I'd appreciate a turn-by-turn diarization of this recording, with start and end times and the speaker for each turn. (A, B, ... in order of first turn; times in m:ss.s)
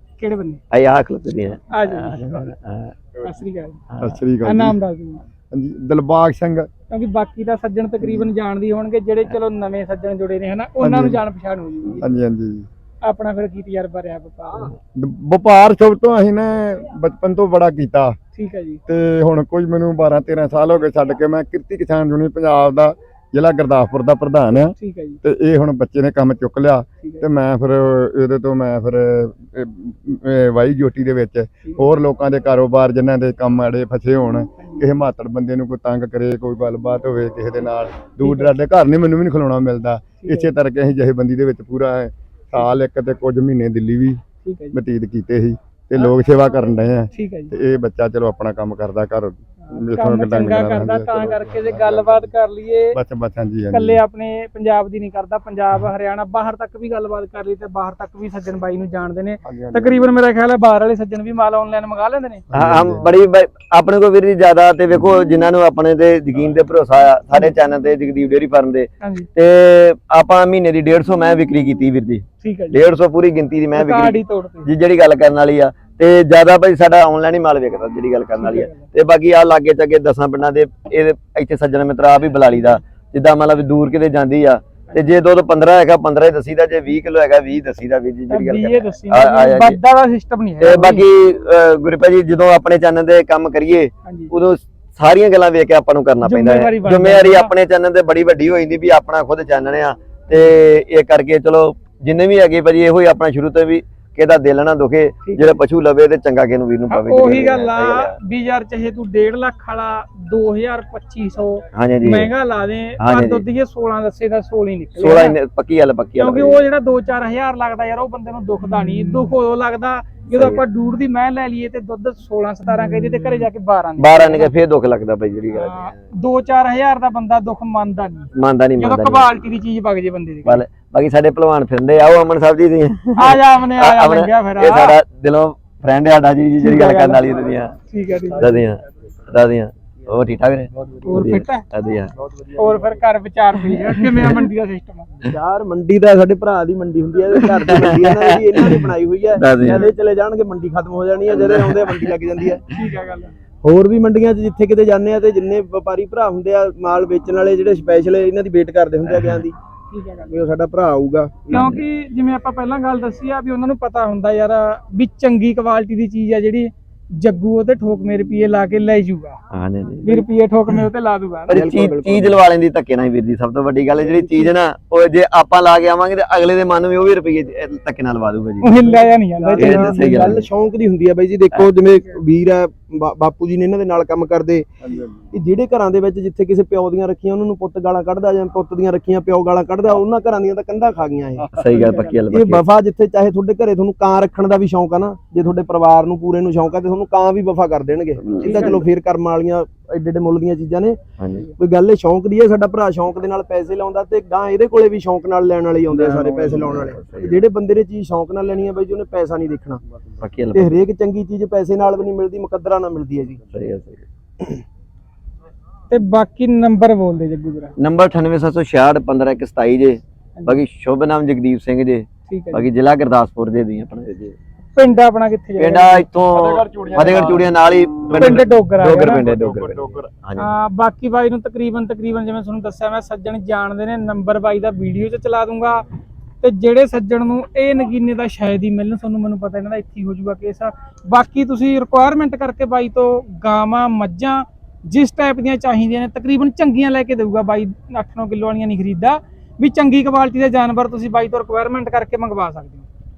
0:00.2-0:00.6 A
0:00.7-0:02.9 B
0:01.7-0:02.5 A
0:03.2-0:03.8 A
0:03.9-0:04.2 B
0:04.0-0:04.8 C
0:04.4-0:05.2 A
0:05.5-0:06.7 C
0:06.9-0:12.0 A
0:10.8-0:11.2 C
0:12.0-0:12.7 C
0:13.0-0:14.7 A
0:15.0-0:18.2 C
0:18.4-0:18.8 A
0:18.9-0:44.2 C
0:24.7-0:25.2 A
0:34.6-0:34.9 A
0:38.2-0:38.6 A
0:40.2-0:40.5 A
0:44.4-0:44.8 A
0:44.7-0:52.3 C
0:47.1-0:47.5 A
0:49.6-0:53.0 A
0:52.9-0:54.0 C
0:53.7-1:02.4 A
0:59.4-1:00.0 C
1:02.5-1:03.1 C
1:02.5-1:29.8 B
1:09.0-1:09.3 A
1:12.4-1:12.8 A
1:13.8-1:14.7 A
1:18.4-1:18.9 A
1:28.3-1:31.0 A
1:30.6-1:48.2 B
1:34.0-1:34.3 A
1:36.2-1:37.5 A
1:45.2-1:45.6 A
1:46.9-1:55.4 A
1:51.7-1:52.3 B
1:53.0-1:53.4 B
1:55.0-1:56.7 B
1:56.2-2:04.5 A
2:00.3-2:00.6 B
2:04.0-2:06.0 B
2:05.5-2:10.6 A
2:08.3-2:09.4 B
2:10.4-2:17.8 B
2:13.2-2:15.0 A
2:16.6-2:17.2 A
2:17.9-2:18.6 A
2:18.4-2:22.1 B
2:21.0-2:21.7 A
2:22.5-2:25.3 A
2:25.3-2:32.6 D
2:27.4-2:29.9 B
2:31.3-2:32.1 B
2:32.7-2:33.3 A
2:33.6-2:39.6 D
2:39.1-2:39.4 B
2:39.9-2:40.4 A
2:40.3-2:41.7 D
2:41.5-2:41.8 B
2:41.5-2:49.4 A
2:49.5-2:50.2 B
2:50.0-2:51.6 A
2:51.5-2:52.4 D
2:51.5-2:58.9 B
2:58.6-3:00.4 A
2:59.0-3:04.7 D
2:59.6-3:00.5 B
3:04.9-3:05.1 C
3:05.3-3:11.5 D
3:11.4-3:12.0 C
3:11.6-3:12.6 B
3:11.7-3:12.1 A
3:12.3-3:21.0 D
3:18.2-3:18.8 B
3:18.4-3:18.8 A
3:21.2-3:21.5 B
3:21.6-3:29.8 D
3:26.0-3:27.4 B
3:30.2-3:30.8 B
3:30.5-3:33.4 D
3:33.5-3:34.0 B
3:35.9-3:37.7 A
3:37.8-3:44.4 B
3:42.3-3:42.7 A
3:44.8-3:46.0 A
3:45.6-3:50.5 B
3:46.3-3:47.5 C
3:48.1-3:48.4 C
3:48.1-3:49.2 A
3:49.0-3:50.1 C
3:50.4-3:55.8 A
3:56.4-4:12.9 A